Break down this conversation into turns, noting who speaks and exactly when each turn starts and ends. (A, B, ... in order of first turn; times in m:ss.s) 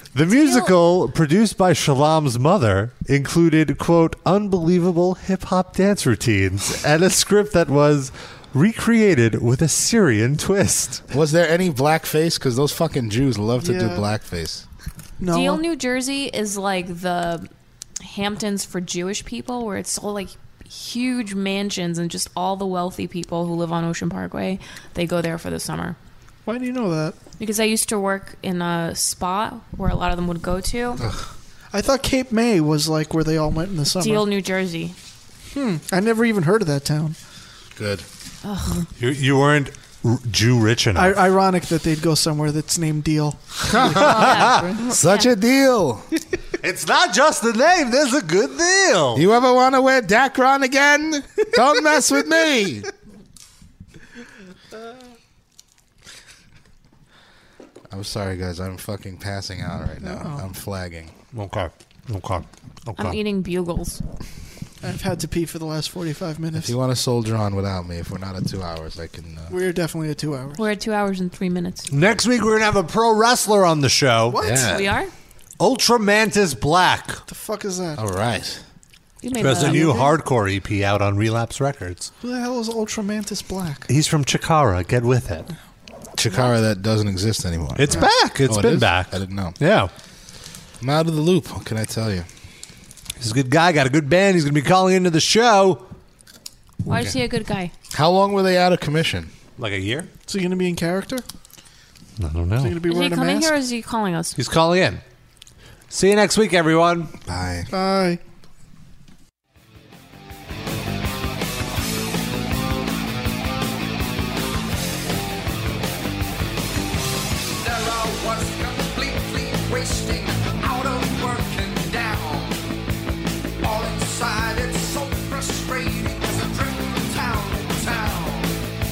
0:00.1-0:11.0 A
0:00.3-0:00.7 B
0:11.1-0:14.6 C
0:13.6-0:14.1 D
0:15.2-0:15.6 D
0:15.3-0:17.5 B
0:18.0-0:26.0 B
0:26.5-0:27.2 D
0:27.4-0:31.0 B
0:31.0-0:31.3 C
0:31.7-0:34.2 D
0:34.0-0:35.0 B
0:35.5-0:37.2 D
0:37.8-0:38.1 C
0:38.4-0:38.9 B
0:39.0-0:41.2 A
0:41.0-0:44.8 D
0:43.7-0:46.1 C
0:44.0-0:44.6 A
0:44.8-0:45.3 B
0:46.6-0:49.3 A
0:49.1-0:52.9 C
0:57.9-1:01.2 C
1:00.0-1:00.4 D
1:01.3-1:03.2 A
1:03.0-1:04.0 B
1:04.8-1:06.7 D
1:06.5-1:09.5 C
1:09.5-1:10.6 D
1:10.6-1:11.9 B
1:11.9-1:14.4 A
1:14.3-1:14.7 D
1:14.4-1:15.0 C
1:14.6-1:15.1 B
1:15.6-1:17.2 A
1:17.3-1:18.0 D
1:18.0-1:18.6 C
1:19.2-1:20.2 B
1:19.4-1:22.1 A
1:22.2-1:23.9 D
1:23.9-1:25.5 A
1:26.2-1:29.6 C
1:27.8-1:29.9 A
1:30.8-1:32.3 C
1:33.2-1:35.9 A
1:36.9-1:37.7 B
1:37.9-1:39.3 C
1:39.6-1:40.1 A
1:40.3-1:41.2 D
1:42.2-1:42.8 A
1:42.6-1:43.5 D
1:42.9-1:44.4 B
1:44.4-1:45.0 A
1:45.9-1:47.1 A
1:47.2-1:47.7 C
1:47.7-1:48.2 D
1:57.6-2:02.6 E
2:03.6-2:08.6 E